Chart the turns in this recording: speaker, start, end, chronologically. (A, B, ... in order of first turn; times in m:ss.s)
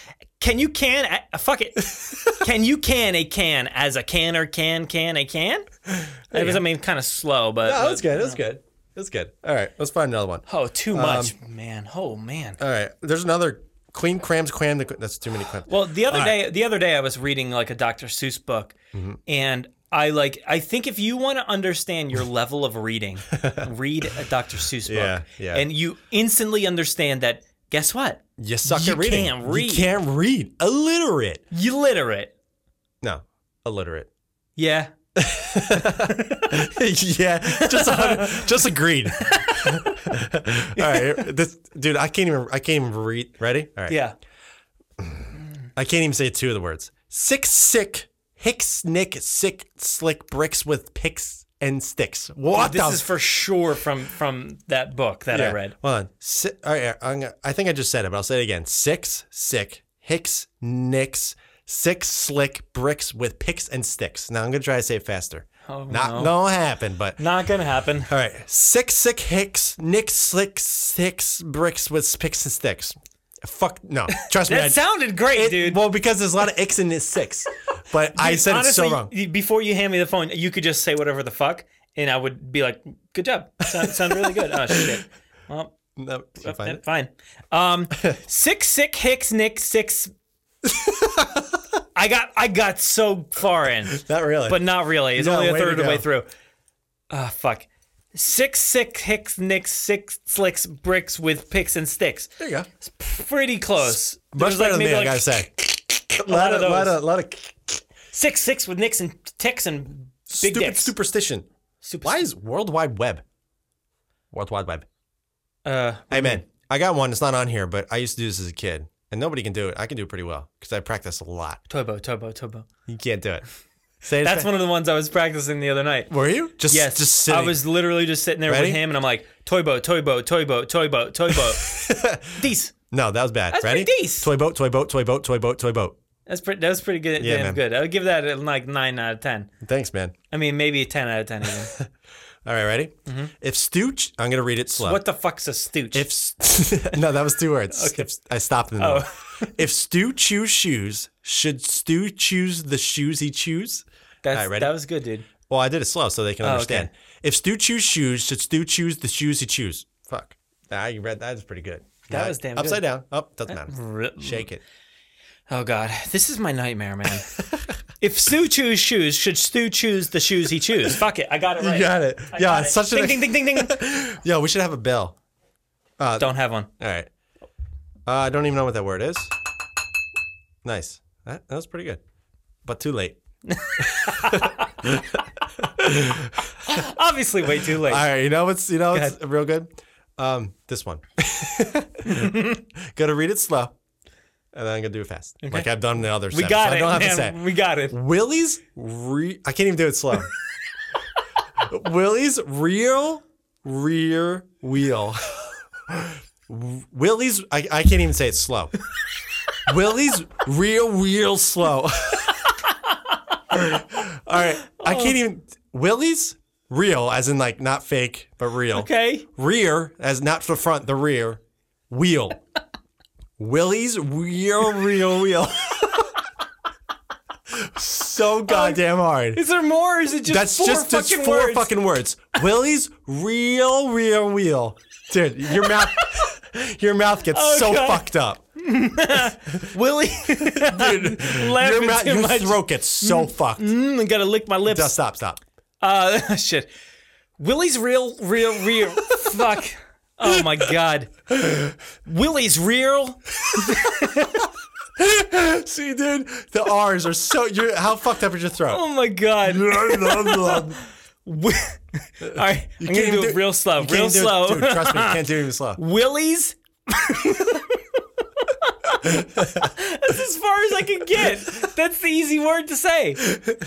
0:00.4-0:05.7 A
0:01.9-0:02.2 B
0:05.9-0:06.6 B
0:06.3-0:08.4 A
0:07.6-0:11.3 B
0:10.5-0:12.6 A
0:12.6-0:16.4 B
0:15.7-0:18.7 A
0:18.9-0:19.2 B
0:19.3-0:29.9 A
0:23.3-0:23.7 B
0:24.9-0:25.7 B
0:28.4-0:31.4 B
0:31.5-0:32.3 A
0:33.0-0:34.1 B
0:34.6-0:34.9 A
0:35.2-0:44.0 B
0:35.7-0:36.6 A
0:37.5-0:38.6 A
0:39.2-0:40.1 A
0:40.8-0:41.3 A
0:43.9-0:44.2 A
0:45.0-0:53.0 B
0:52.5-0:55.8 A
0:55.3-1:07.2 B
1:05.7-1:06.3 A
1:07.2-1:08.1 A
1:08.1-1:19.1 B
1:14.1-1:15.8 A
1:18.1-1:25.7 A
1:23.8-1:25.0 B
1:26.0-1:26.8 B
1:26.4-1:30.1 A
1:30.6-1:31.5 B
1:32.0-1:36.3 A
1:33.9-1:36.1 B
1:37.1-1:42.3 A
1:42.4-1:42.7 B
1:42.9-1:47.0 A
1:43.8-1:45.5 B
1:46.2-1:47.8 B
1:48.1-1:51.0 A
1:50.3-1:51.5 B
1:51.8-1:52.3 A
1:52.0-1:53.2 B
1:54.3-1:54.9 B
1:55.6-1:56.4 A
1:56.1-2:01.6 B
2:01.7-2:02.7 A
2:02.9-2:03.4 B
2:04.0-2:04.5 B
2:04.2-2:06.1 A
2:06.1-2:07.6 B
2:06.7-2:11.7 A
2:08.5-2:08.8 B
2:11.6-2:12.4 B
2:12.3-2:12.7 A
2:12.9-2:16.0 B
2:13.5-2:14.3 A
2:16.3-2:19.5 A
2:17.2-2:17.6 B
2:19.6-2:20.1 B
2:20.3-2:21.7 A
2:21.4-2:21.9 B
2:22.5-2:25.0 B
2:23.1-2:23.3 A
2:24.8-2:26.1 A
2:25.9-2:34.8 B
2:27.7-2:28.1 A
2:28.8-2:29.6 A
2:34.2-2:35.3 A
2:35.5-2:44.6 B
2:36.4-2:36.9 A
2:42.1-2:42.8 A
2:43.5-2:44.5 A
2:45.5-2:47.4 A
2:47.4-2:47.6 B
2:48.0-2:53.8 A
2:51.6-2:55.2 B
2:56.0-2:57.1 B
2:56.2-2:56.7 A
2:58.1-2:59.3 B
3:00.6-3:02.0 B
3:02.7-3:03.2 B
3:03.5-3:04.7 A
3:03.8-3:06.8 B
3:06.6-3:08.0 A
3:07.6-3:13.7 B
3:08.9-3:09.2 A
3:12.0-3:12.6 A
3:14.5-3:17.4 B
3:15.4-3:15.7 A
3:16.3-3:18.0 A
3:17.9-3:20.3 B
3:21.6-3:28.7 B
3:29.7-3:32.5 B
3:32.6-3:33.1 A
3:33.5-3:42.4 B
3:34.7-3:35.2 A
3:38.7-3:39.3 A
3:43.4-3:46.1 B
3:47.5-3:49.4 B
3:48.5-3:48.8 A
3:49.3-3:51.8 A
3:50.2-3:58.4 B
3:55.5-3:56.3 A
3:57.3-4:05.0 A
4:00.4-4:03.7 B
4:04.6-4:05.4 B
4:05.8-4:06.7 A
4:07.4-4:11.1 A
4:08.8-4:09.4 B
4:12.0-4:14.5 A
4:15.0-4:18.8 B
4:18.7-4:25.2 A
4:19.4-4:20.8 B
4:22.2-4:25.8 B
4:25.8-4:27.8 A
4:28.4-4:33.3 A
4:29.2-4:29.4 B